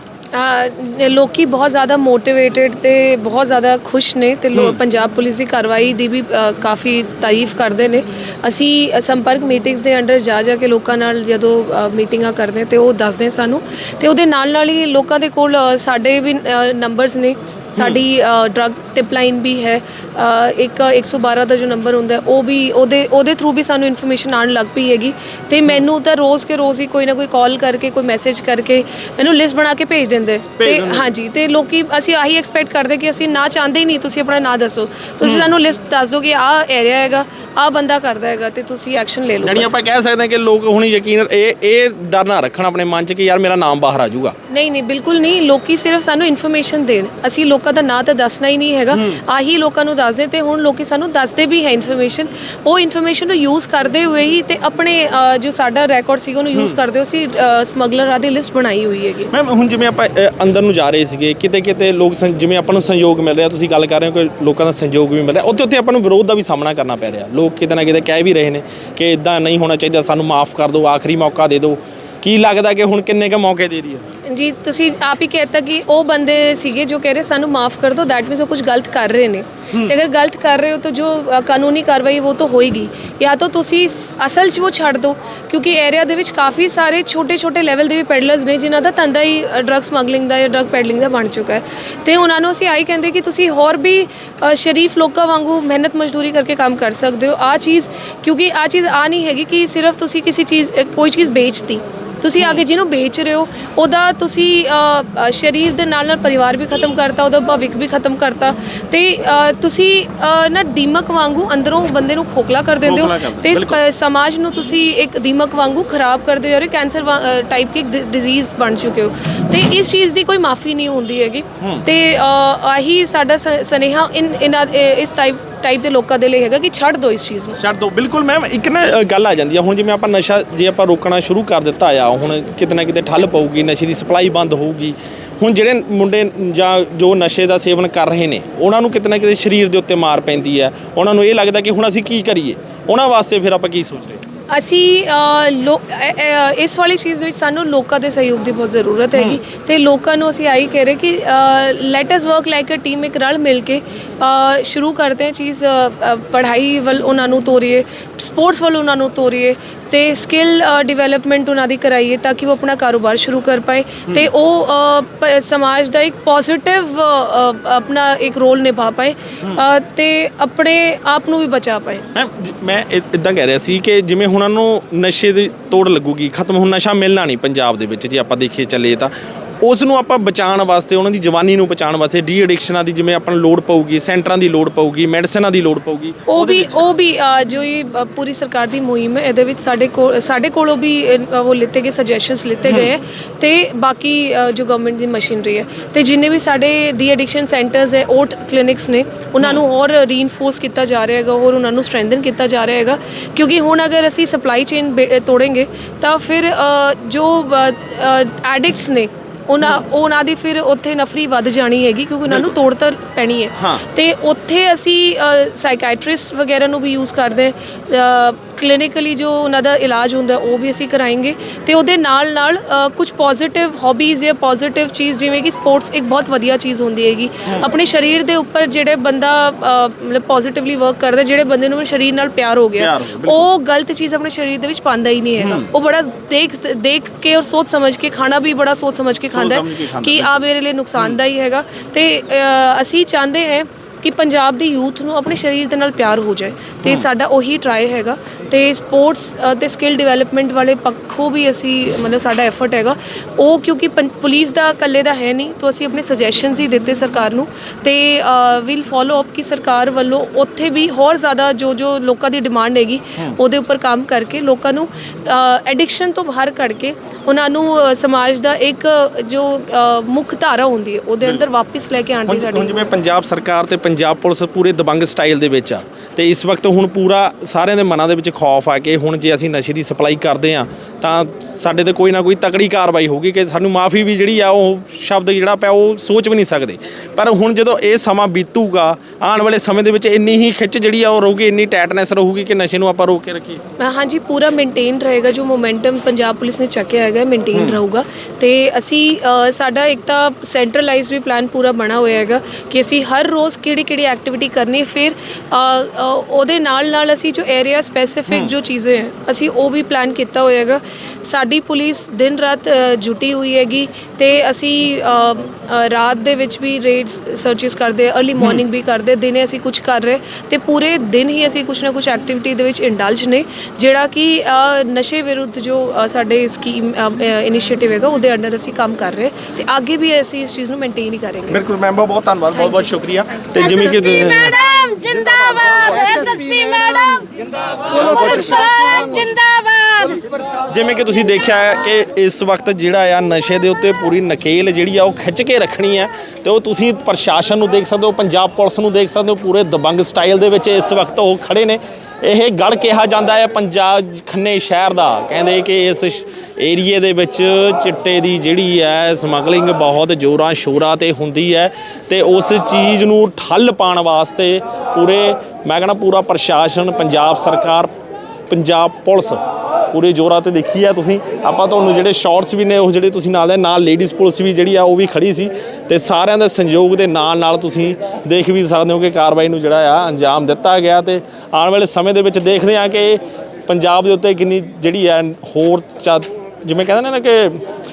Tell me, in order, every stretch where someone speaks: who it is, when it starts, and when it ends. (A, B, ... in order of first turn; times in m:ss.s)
0:00.3-0:39.7 A
0:04.5-0:04.8 B
0:30.6-0:31.1 B
0:35.2-0:35.5 B
0:39.4-0:44.4 B
0:44.5-0:59.3 A
0:48.9-0:49.2 B
0:59.3-1:14.0 B
1:14.2-2:07.6 A
1:42.4-1:42.6 B
1:52.8-1:53.8 B
2:01.6-2:01.8 B
2:07.6-2:24.2 B
2:24.5-2:52.0 A
2:29.2-2:29.4 B
2:52.2-3:06.8 B
3:06.3-4:32.9 A
3:12.7-3:12.9 B
3:32.3-3:32.6 B
3:33.6-3:33.8 B
3:52.8-3:53.5 B
3:55.4-3:55.7 B
3:59.3-4:00.4 B
4:06.8-4:07.1 B
4:32.3-4:53.6 B
4:53.8-5:31.6 A
4:57.5-4:57.8 B
5:18.4-5:18.6 B
5:31.5-5:34.6 B
5:34.6-5:38.0 C
5:38.0-5:38.9 B
5:38.5-5:40.3 C
5:40.7-6:07.9 B
6:08.5-6:27.6 B